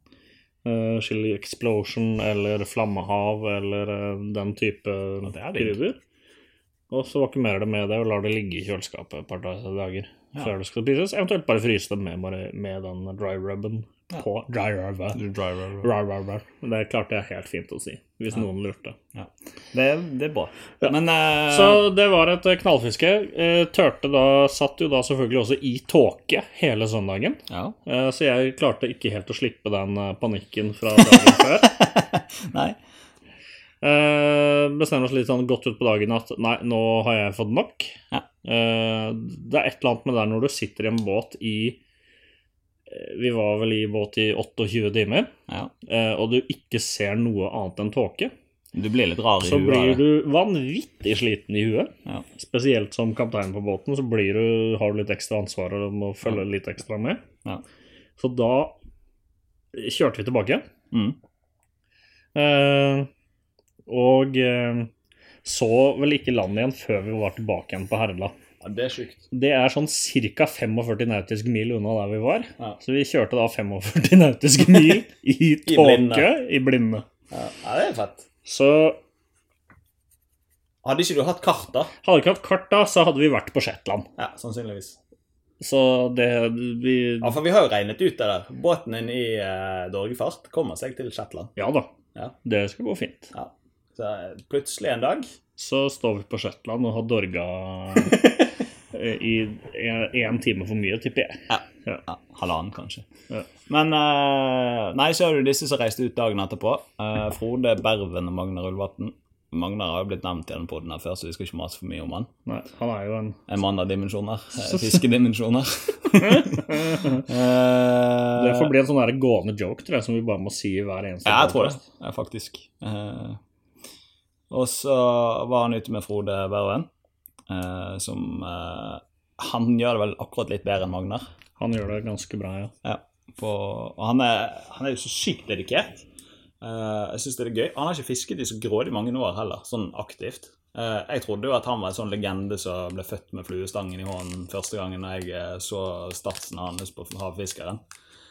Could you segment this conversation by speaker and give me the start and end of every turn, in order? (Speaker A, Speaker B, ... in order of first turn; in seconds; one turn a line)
Speaker A: 0.6-6.0
Speaker B: 5.2-5.8
Speaker A: 6.9-15.2
Speaker B: 15.1-15.9
Speaker A: 15.8-19.0
Speaker B: 19.1-21.8
Speaker A: 21.5-31.8
Speaker B: 27.5-27.8
Speaker B: 31.0-32.8
Speaker A: 33.8-41.8
Speaker A: 42.9-45.3
Speaker A: 45.8-48.3
Speaker B: 48.7-50.0
Speaker A: 49.4-57.2
Speaker A: 58.2-58.8
Speaker A: 59.7-60.6
Speaker B: 60.9-61.2
Speaker A: 62.4-63.1
Speaker A: 63.9-64.9
Speaker A: 65.4-68.3
Speaker B: 68.6-69.2
Speaker A: 69.3-77.0
Speaker B: 75.7-76.3
Speaker B: 77.3-78.3
Speaker A: 78.4-79.0
Speaker B: 80.8-81.9
Speaker A: 82.0-84.1
Speaker B: 84.2-85.0
Speaker A: 85.6-87.4
Speaker B: 87.2-91.5
Speaker A: 91.6-91.9
Speaker A: 92.4-93.3
Speaker B: 93.3-95.3
Speaker A: 95.6-98.3
Speaker A: 98.9-102.0
Speaker B: 101.5-103.1
Speaker B: 103.7-112.3
Speaker A: 112.5-113.4
Speaker B: 113.5-118.7
Speaker A: 116.2-117.3
Speaker A: 118.3-121.8
Speaker B: 121.2-123.4
Speaker B: 124.5-126.9
Speaker B: 127.5-131.2
Speaker A: 131.6-132.7
Speaker B: 132.8-136.1
Speaker B: 136.6-147.8